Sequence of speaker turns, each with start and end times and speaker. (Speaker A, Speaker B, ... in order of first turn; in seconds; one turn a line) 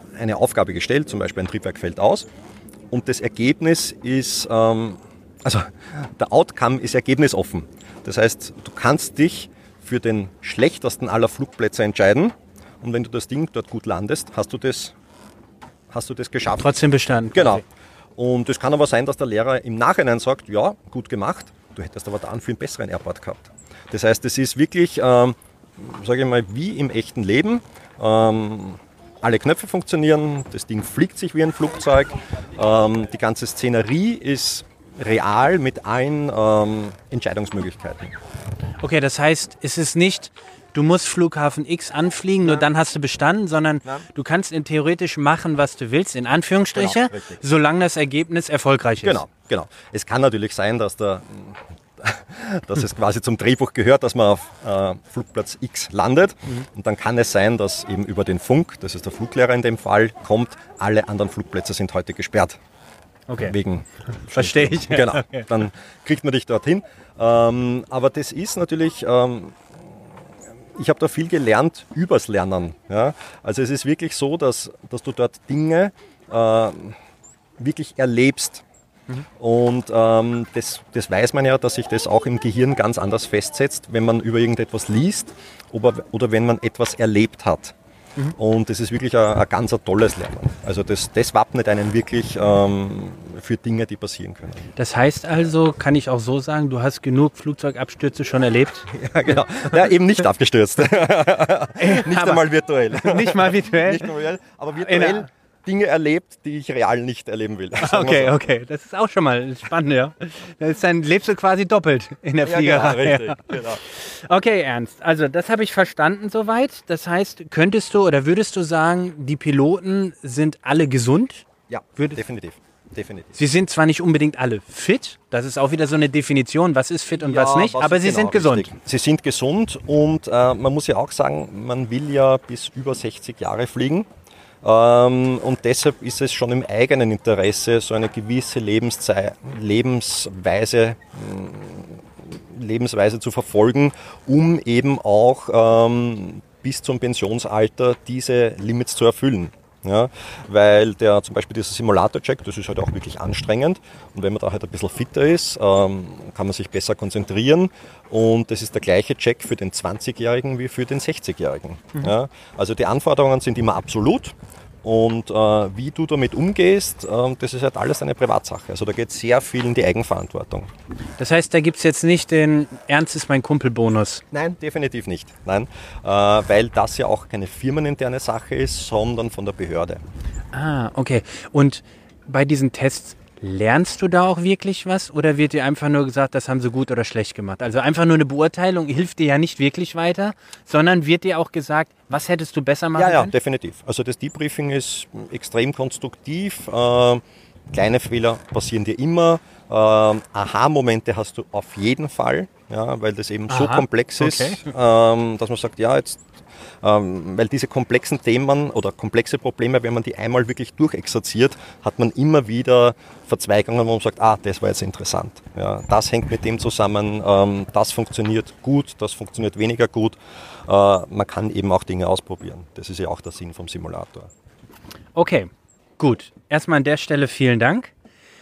Speaker A: 0.2-2.3
Speaker A: 2.9-14.9
Speaker A: 15.9-16.7
Speaker B: 16.6-17.6
Speaker A: 17.3-17.6
Speaker A: 18.2-38.1
Speaker B: 38.8-49.2
Speaker A: 46.7-47.4
Speaker A: 49.0-62.6
Speaker B: 63.3-63.5
Speaker A: 63.4-69.6
Speaker B: 64.3-65.5
Speaker A: 70.8-77.0
Speaker A: 77.6-78.6
Speaker A: 79.4-87.7
Speaker A: 88.4-94.7
Speaker B: 94.8-98.9
Speaker A: 98.9-108.4
Speaker B: 101.8-104.1
Speaker B: 104.8-105.3
Speaker B: 107.8-122.2
Speaker A: 112.4-113.8
Speaker A: 121.7-123.4
Speaker B: 123.3-128.7
Speaker A: 127.1-134.1
Speaker A: 134.6-170.7
Speaker B: 171.2-174.2
Speaker A: 174.3-180.0
Speaker B: 180.5-193.3
Speaker A: 192.9-206.2
Speaker B: 203.5-204.7
Speaker A: 206.8-224.3
Speaker B: 225.1-227.9